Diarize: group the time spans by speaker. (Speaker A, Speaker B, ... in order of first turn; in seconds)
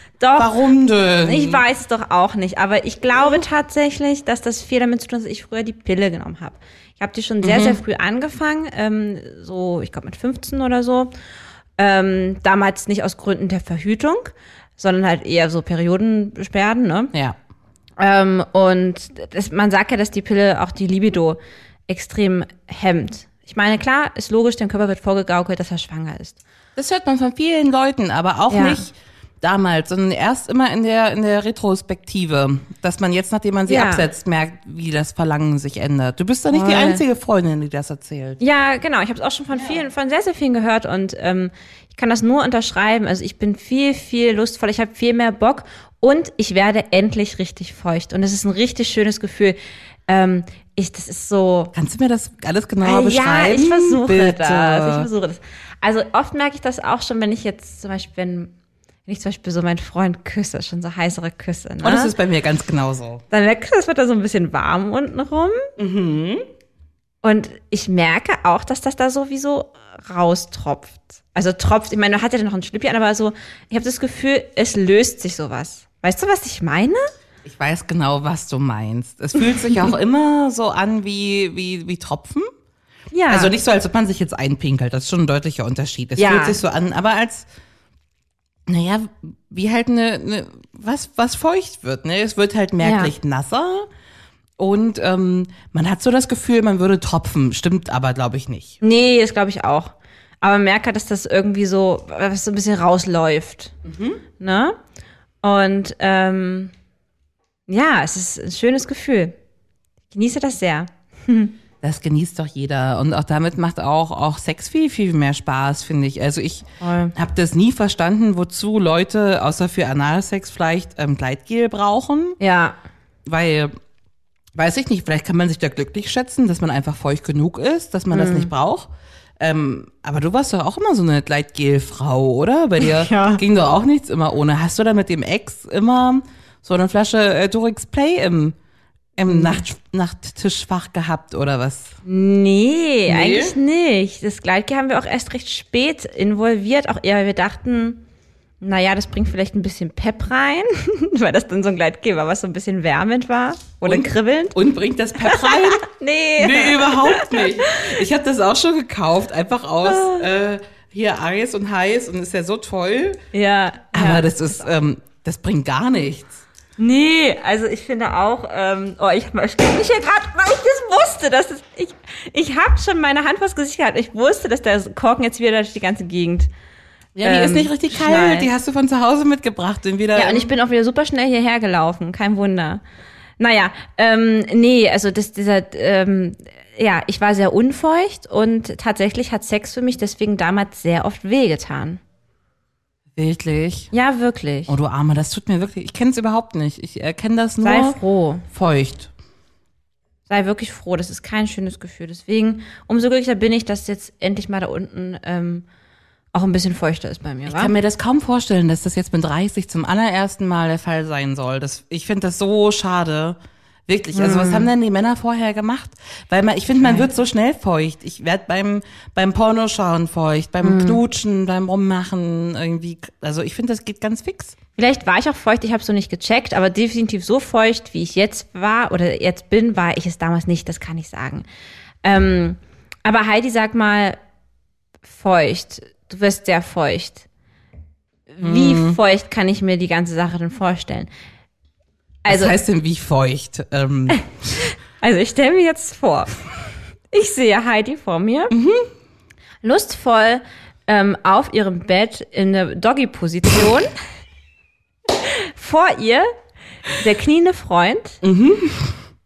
Speaker A: 0.2-0.5, 1.2-11.1, 11.8-17.1, 18.0-26.4, 28.5-28.8, 33.7-34.0, 36.5-37.0, 38.4-51.7, 52.8-58.5, 59.1-62.1, 63.3-65.6, 67.2-77.1, 83.1-83.5, 86.2-86.6, 92.8-93.1, 98.8-103.7, 104.4-104.8, 105.4-106.7, 107.7-109.3, 110.1-111.5, 116.8-117.1, 122.4-122.8, 128.1-128.5, 132.8-133.4, 139.3-139.6, 142.1-148.0, 148.6-154.6, 155.2-157.9, 159.8-160.2, 163.3-164.6, 166.8-176.5, 177.2-178.5, 180.1-182.8, 183.4-192.0, 193.9-194.7, 197.6-198.4, 200.3-205.6, 206.3-207.7, 214.1-214.7, 216.8-217.1, 220.6-221.0, 224.8-231.5, 232.0-234.2, 235.1-237.2, 238.3-241.1, 242.2-242.6, 244.6-246.3, 247.1-248.5, 249.6-253.9, 255.2-256.3, 256.9-258.2
Speaker B: 0.4-1.6, 7.4-7.8, 26.8-38.4, 39.5-39.8, 51.7-55.1, 61.8-63.2, 65.8-66.5, 77.5-82.5, 83.3-87.5, 88.7-93.9, 94.6-98.8, 103.8-104.2, 111.8-122.4, 123.2-123.7, 124.5-138.6, 139.2-142.0, 143.1-143.6, 153.8-155.8, 156.4-163.2, 163.9-166.4, 177.2-180.5, 193.2-193.9, 194.7-198.0, 198.5-199.1, 207.5-224.6, 238.4-239.0, 242.3-244.5, 248.5-248.9, 258.2-259.0